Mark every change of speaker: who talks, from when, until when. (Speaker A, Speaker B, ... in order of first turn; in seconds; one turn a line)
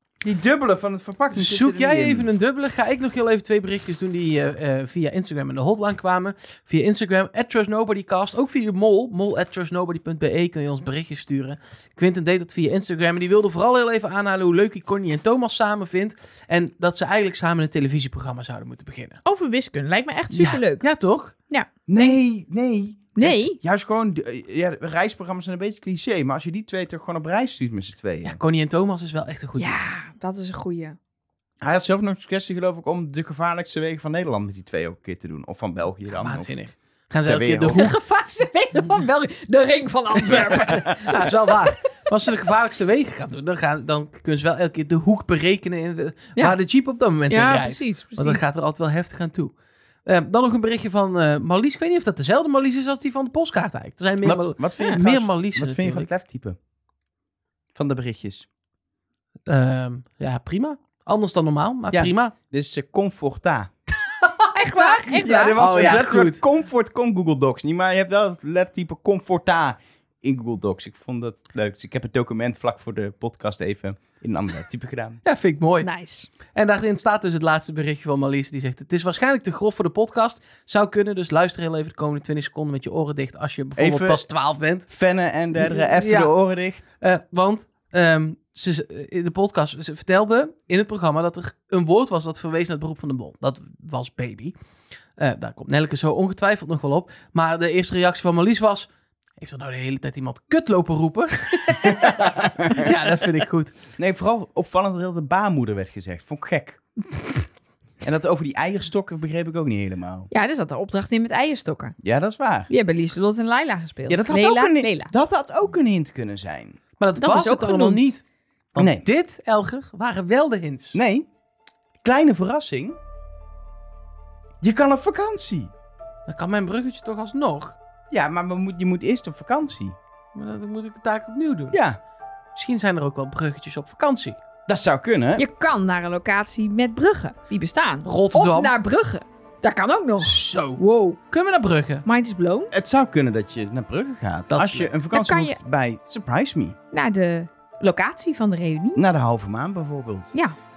Speaker A: 0.2-2.3
Speaker B: 1.3-19.2
Speaker C: 19.2-20.8
Speaker B: 20.3-21.3
Speaker A: 21.9-28.4
Speaker C: 23.1-23.6
Speaker B: 28.2-29.7
Speaker C: 29.6-31.0
Speaker A: 31.6-36.5
Speaker B: 36.1-37.9
Speaker A: 37.2-37.8
Speaker C: 37.7-41.3
Speaker B: 41.1-49.5
Speaker C: 47.3-48.4
Speaker B: 50.0-56.1
Speaker A: 54.2-56.6
Speaker A: 57.7-58.5
Speaker B: 59.5-62.3
Speaker A: 61.9-63.7
Speaker B: 64.4-66.4
Speaker C: 64.5-66.0
Speaker A: 65.1-75.2
Speaker B: 75.2-75.9
Speaker C: 75.8-76.3
Speaker B: 76.5-84.9
Speaker A: 83.8-84.2
Speaker A: 84.9-86.9
Speaker B: 85.5-86.3
Speaker B: 87.0-94.5
Speaker B: 95.2-103.8
Speaker A: 101.8-102.9
Speaker A: 104.0-106.8
Speaker A: 108.0-110.3
Speaker C: 110.3-112.0
Speaker A: 112.0-112.7
Speaker C: 112.7-115.1
Speaker A: 114.1-116.8
Speaker B: 117.0-118.2
Speaker C: 117.2-118.1
Speaker B: 118.7-121.0
Speaker A: 118.8-119.0
Speaker A: 120.9-121.3
Speaker A: 122.0-123.0
Speaker A: 124.6-125.7
Speaker B: 126.3-127.8
Speaker A: 128.1-130.0
Speaker B: 130.3-131.8
Speaker A: 131.7-132.0
Speaker B: 132.6-134.4
Speaker A: 134.7-135.4
Speaker C: 135.3-141.2
Speaker B: 138.0-138.7
Speaker B: 140.2-142.0
Speaker C: 142.0-142.7
Speaker A: 142.7-146.8
Speaker B: 144.5-144.9
Speaker C: 145.1-145.6
Speaker C: 146.9-149.0
Speaker A: 148.9-150.3